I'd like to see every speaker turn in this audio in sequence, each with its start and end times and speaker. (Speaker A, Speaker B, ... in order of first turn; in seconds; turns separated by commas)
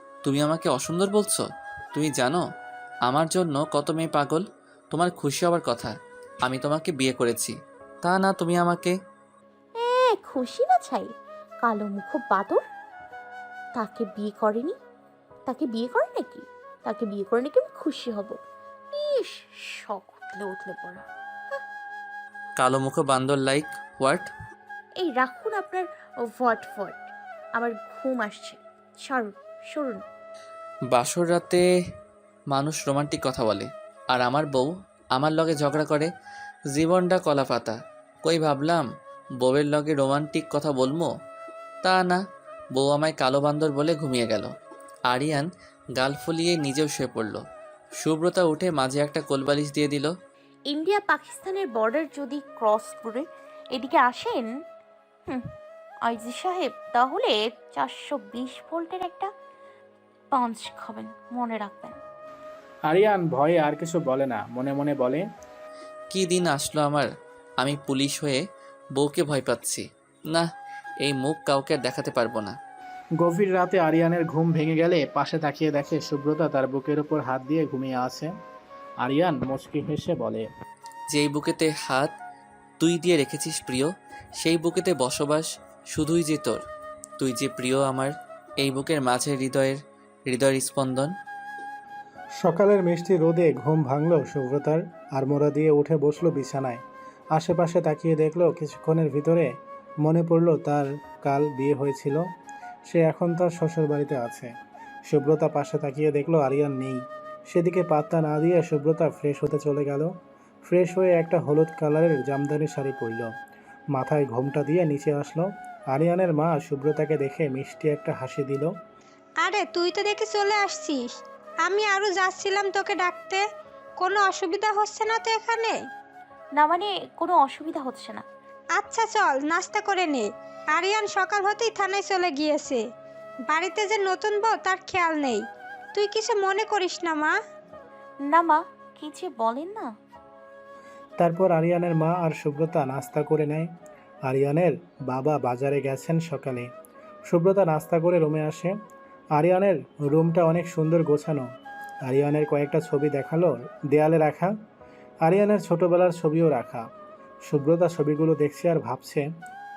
Speaker A: 0.2-1.4, Speaker A: 1.9-2.4, Speaker A: 3.1-5.9, Speaker A: 6.4-8.9, Speaker B: 9.8-11.1, Speaker B: 11.6-12.6, Speaker B: 13.8-14.7, Speaker B: 15.4-18.4, Speaker B: 18.9-21.1, Speaker A: 22.6-24.3, Speaker B: 25.0-30.0, Speaker A: 30.9-31.6, Speaker A: 32.5-36.1, Speaker A: 36.7-38.9, Speaker A: 39.4-41.1, Speaker A: 41.8-42.2, Speaker A: 42.7-44.5, Speaker A: 45.1-47.4, Speaker A: 48.0-50.1, Speaker B: 50.7-54.5, Speaker B: 56.0-59.3, Speaker B: 60.3-62.0, Speaker C: 62.9-65.2, Speaker A: 66.1-67.1, Speaker A: 67.6-68.4, Speaker A: 69.0-70.5, Speaker A: 71.0-72.5, Speaker C: 73.2-78.3, Speaker C: 79.0-80.5, Speaker A: 81.1-82.2, Speaker A: 82.8-86.6, Speaker A: 87.2-91.1, Speaker C: 92.4-96.8, Speaker C: 97.3-99.5, Speaker C: 100.0-102.2, Speaker C: 102.9-104.5, Speaker C: 105.1-110.1, Speaker C: 110.7-113.3, Speaker C: 113.9-118.7, Speaker D: 119.4-125.9, Speaker B: 126.5-128.2, Speaker D: 128.7-132.8, Speaker D: 133.4-137.4, Speaker B: 138.3-139.9, Speaker C: 141.2-143.7, Speaker C: 144.2-146.7, Speaker C: 147.3-148.7, Speaker C: 149.3-151.4, Speaker C: 152.1-154.5, Speaker C: 155.2-156.8, Speaker C: 157.5-159.2